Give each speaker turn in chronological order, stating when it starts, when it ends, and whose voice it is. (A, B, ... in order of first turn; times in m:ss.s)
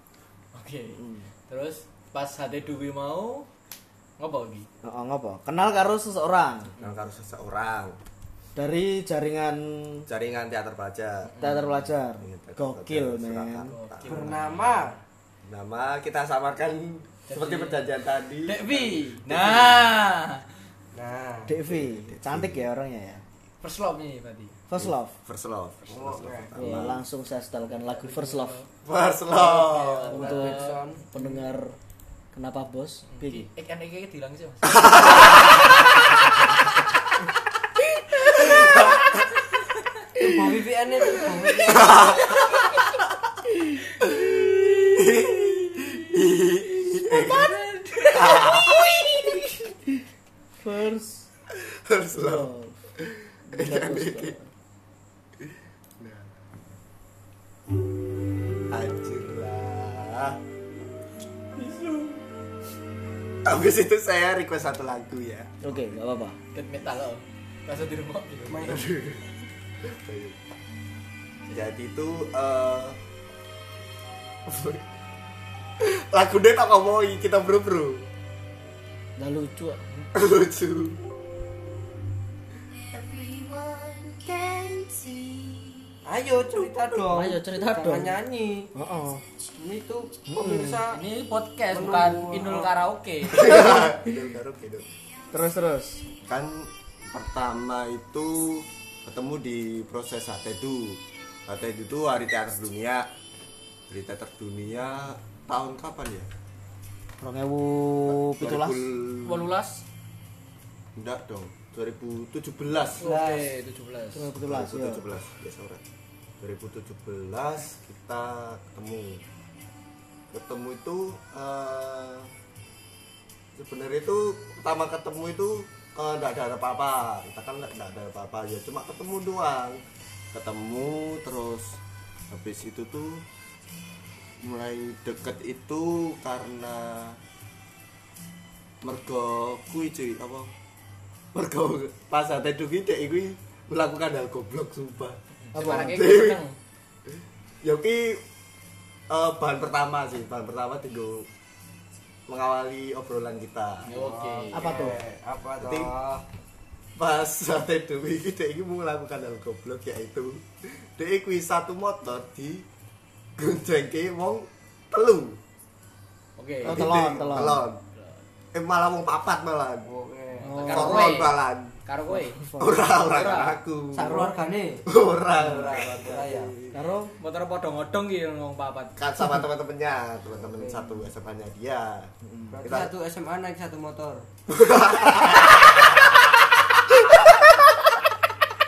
0:00.5-0:03.5 A
0:04.2-0:04.7 A
0:04.8-0:06.7 B
0:06.8-0:08.0 C
0:08.6-0:10.1 B
0:10.1-0:11.4 C
0:11.3-0:11.8 A
0:11.4-0:13.7 B
0:12.2-0:14.4 C
0:13.6-0:14.9 A
0:14.0-0:15.0 D
0:15.5-0:19.8 C
0:17.3-0:17.9 A
0:18.4-0:20.5 A
0:20.9-0:21.6 D
0:21.5-0:23.2 B
0:21.7-0:22.7 C
0:23.6-0:24.6 A
0:24.7-0:25.2 B
0:24.8-0:27.0 C
0:25.9-0:26.5 D
0:26.6-0:28.6 B
0:27.7-0:28.7 A
0:28.8-0:30.3 C
0:29.3-0:31.5 A
0:30.1-0:31.0 D
0:30.1-0:31.8 B
0:32.3-0:33.5 B
0:33.1-0:35.5 A
0:34.7-0:35.4 C
0:38.3-0:38.8 A
0:38.6-0:39.0 C
0:40.2-0:42.2 D
0:41.7-0:42.4 C
0:44.0-0:47.6 C
0:44.4-0:44.7 A
0:47.3-0:48.7 A
0:48.1-0:49.0 C
0:50.6-0:51.3 B
0:51.6-0:54.4 C
0:52.1-0:52.8 B
0:53.5-0:54.5 B
0:55.4-0:56.3 C
0:58.7-1:00.4 C
1:01.6-1:02.2 A
1:03.4-1:05.6 C
1:05.6-1:06.4 B
1:06.5-1:08.9 A
1:08.5-1:08.9 D
1:08.6-1:09.3 C
1:09.8-1:10.4 C
1:11.5-1:13.0 C
1:14.5-1:14.8 C
1:15.8-1:18.1 C
1:19.2-1:19.8 B
1:20.1-1:21.0 C
1:24.2-1:25.6 C
1:26.0-1:28.7 D
1:27.1-1:28.2 B
1:28.7-1:29.2 B
1:29.6-1:31.0 D
1:30.3-1:30.8 B
1:30.9-1:33.9 A
1:31.7-1:32.7 D
1:33.2-1:34.9 C
1:33.5-1:33.9 B
1:35.3-1:36.0 B
1:36.3-1:43.1 C
1:43.9-1:46.3 C
1:47.2-1:48.9 B
1:48.1-1:49.5 C
1:49.2-1:49.8 A
1:51.0-1:53.1 C
1:53.0-1:54.3 A
1:53.0-1:53.5 D
1:54.1-1:55.0 B
1:54.4-1:55.8 C
1:56.4-1:59.2 C
2:00.3-2:02.3 C
2:03.6-2:09.8 C
2:10.3-2:13.3 C
2:14.4-2:17.2 C
2:18.8-2:20.5 C
2:21.3-2:26.4 C
2:25.5-2:26.6 A
2:25.5-2:26.0 B
2:27.6-2:28.2 C
2:29.1-2:31.3 C
2:32.3-2:34.1 C
2:33.8-2:34.9 A
2:33.9-2:36.2 D
2:34.5-2:35.0 B
2:35.6-2:35.9 C
2:37.0-2:42.7 C
2:43.4-2:45.4 C
2:46.4-2:46.9 A
2:46.6-2:47.7 B
2:46.6-2:47.8 C
2:48.0-2:48.2 A
2:48.5-2:49.9 C
2:49.8-2:50.7 D
2:50.4-2:52.5 A
2:50.4-2:51.2 B
2:50.7-2:51.8 C
2:52.1-2:53.2 B
2:52.6-2:54.3 C
2:53.0-2:53.6 A
2:53.9-2:54.9 D
2:54.8-2:56.8 C
2:55.4-2:56.5 D
2:56.7-2:57.1 B
2:57.2-2:59.0 A
2:59.0-3:02.1 C
3:02.2-3:02.6 B
3:02.5-3:04.3 D
3:02.6-3:02.9 C
3:04.5-3:06.2 C